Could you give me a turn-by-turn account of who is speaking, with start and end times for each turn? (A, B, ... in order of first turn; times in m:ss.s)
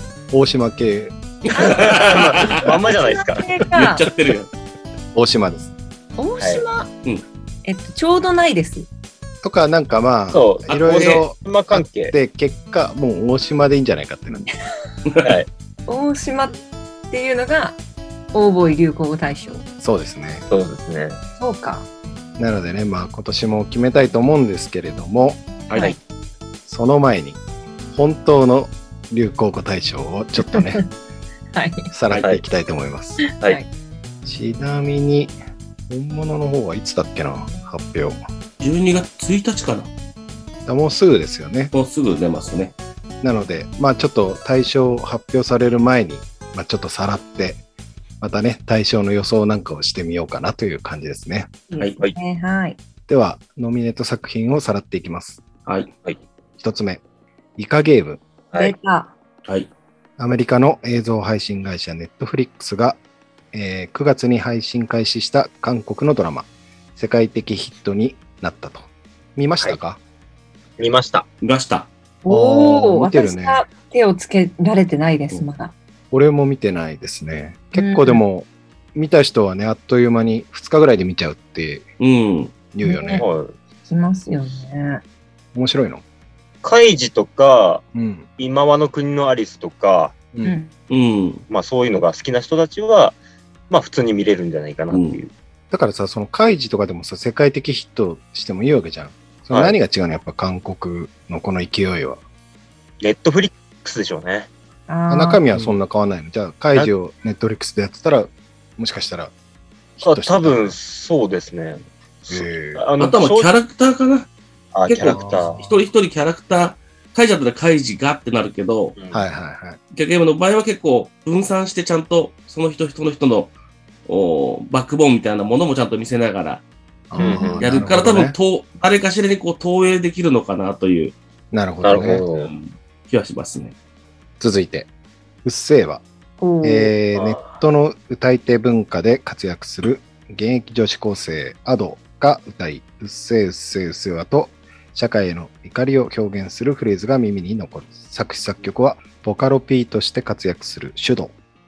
0:00.3-0:01.2 A
0:01.5-0:02.6 B
0:01.5-0:04.1 C
0:01.6-0:03.5 D
0:03.7-0:04.5 B
0:05.1-0:05.7 A
0:06.2-0:06.9 C
0:06.4-0:06.7 D
0:07.6-0:08.9 C
0:09.4-0:14.5 A
0:10.3-0:12.1 D
0:10.7-0:11.2 B
0:15.1-0:15.4 B
0:15.2-0:15.5 D
0:15.9-0:16.6 C
0:17.1-0:17.8 C
0:18.3-0:19.6 C
0:19.8-0:20.5 A
0:20.5-0:21.2 D
0:21.4-0:21.9 C
0:22.4-0:25.4 A
0:25.7-0:26.0 B
0:26.7-0:27.4 A
0:27.9-0:30.8 A
0:30.4-0:30.9 C
0:31.5-0:31.9 C
0:31.9-0:33.2 A
0:33.2-0:33.7 C
0:34.2-0:35.4 A
0:35.9-0:38.2 A
0:38.6-0:39.9 B
0:40.7-0:41.7 A
0:41.7-0:42.7 B
0:43.2-0:47.6 A
0:48.2-0:51.5 A
0:51.7-0:52.8 C
0:53.1-0:55.4 A
0:56.6-0:57.0 A
0:57.6-0:58.2 A
0:58.6-0:59.1 C
1:00.2-1:03.0 A
1:03.5-1:10.0 A
1:10.8-1:11.3 D
1:11.4-1:11.9 B
1:12.2-1:15.7 C
1:12.3-1:13.6 A
1:16.1-1:21.9 A
1:17.8-1:18.2 C
1:22.0-1:22.5 B
1:22.7-1:23.3 A
1:22.8-1:23.3 C
1:23.1-1:23.6 D
1:23.9-1:25.0 C
1:25.5-1:26.0 A
1:26.6-1:27.8 D
1:27.9-1:28.3 A
1:28.4-1:30.2 D
1:30.4-1:30.7 C
1:30.9-1:31.4 B
1:31.5-1:33.2 D
1:33.7-1:35.3 D
1:34.9-1:35.2 B
1:35.7-1:42.2 A
1:43.0-1:44.5 D
1:44.9-1:45.4 C
1:45.1-1:49.3 A
1:50.0-1:50.8 A
1:50.0-1:53.5 D
1:52.3-1:52.8 A
1:53.0-1:54.3 B
1:54.7-1:55.6 D
1:54.9-1:59.0 B
1:55.0-1:55.6 A
1:59.0-1:59.2 D
1:59.1-1:59.8 A
1:59.9-2:03.5 B
2:04.1-2:06.6 B
2:07.1-2:08.4 A
2:07.2-2:07.6 C
2:07.2-2:07.6 D
2:07.6-2:11.2 B
2:11.5-2:12.2 A
2:11.8-2:12.5 D
2:12.3-2:13.7 B
2:14.4-2:14.9 A
2:15.4-2:16.0 A
2:16.4-2:16.9 C
2:16.6-2:31.3 A
2:17.1-2:17.6 D